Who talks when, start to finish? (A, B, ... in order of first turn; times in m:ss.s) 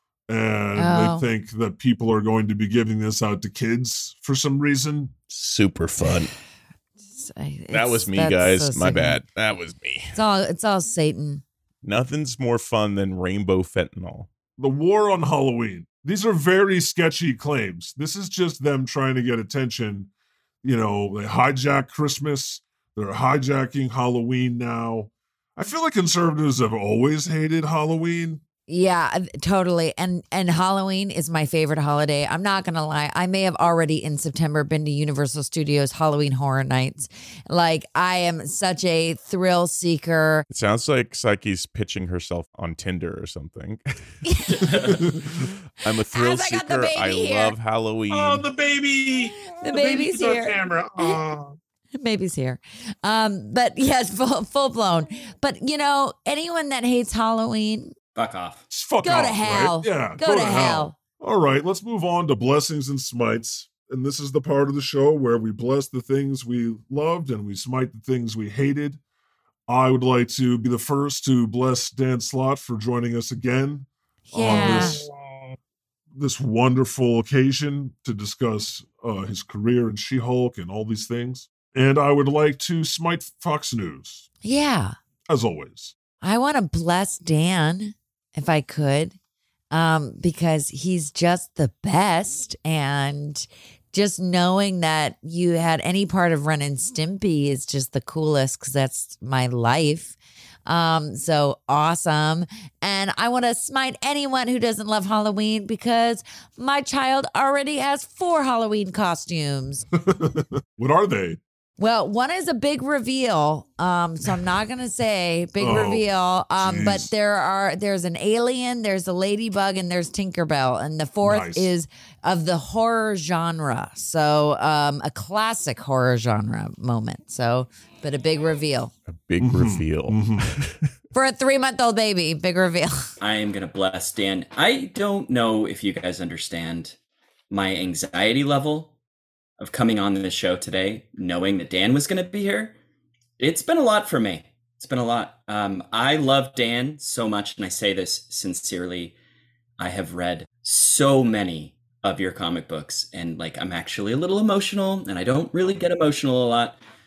0:00.3-0:05.1 A
0:00.8-0:01.3 B
0:05.3-0:06.3 C
0:07.1-0:09.2 B
0:07.7-0:10.2 C
0:10.1-0:11.4 B
0:11.8-0:14.3 C
0:14.6-0:20.1 A
0:20.6-0:28.4 A
0:28.7-0:40.4 B
0:40.5-0:48.4 C
0:44.2-0:45.0 B
0:44.6-0:45.1 D
0:45.9-0:47.6 B
0:48.1-0:51.6 D
0:49.4-0:51.2 B
0:52.0-0:58.0 B
0:58.1-0:58.6 E
0:58.7-1:09.0 A
0:59.0-1:01.0 B
1:09.7-1:15.0 A
1:14.3-1:15.0 B
1:14.5-1:15.6 D
1:16.1-1:24.3 A
1:24.4-1:25.0 B
1:25.3-1:26.0 A
1:26.2-1:29.2 B
1:29.7-1:40.1 B
1:40.7-1:49.9 B
1:50.1-1:51.4 A
1:51.8-2:08.9 B
1:55.6-1:56.1 A
1:56.6-1:57.1 A
2:01.2-2:01.7 A
2:09.1-2:10.9 C
2:09.4-2:10.5 A
2:11.1-2:13.0 B
2:13.2-2:17.0 E
2:17.5-2:18.9 E
2:19.6-2:22.8 E
2:23.4-2:29.2 E
2:29.8-2:36.8 E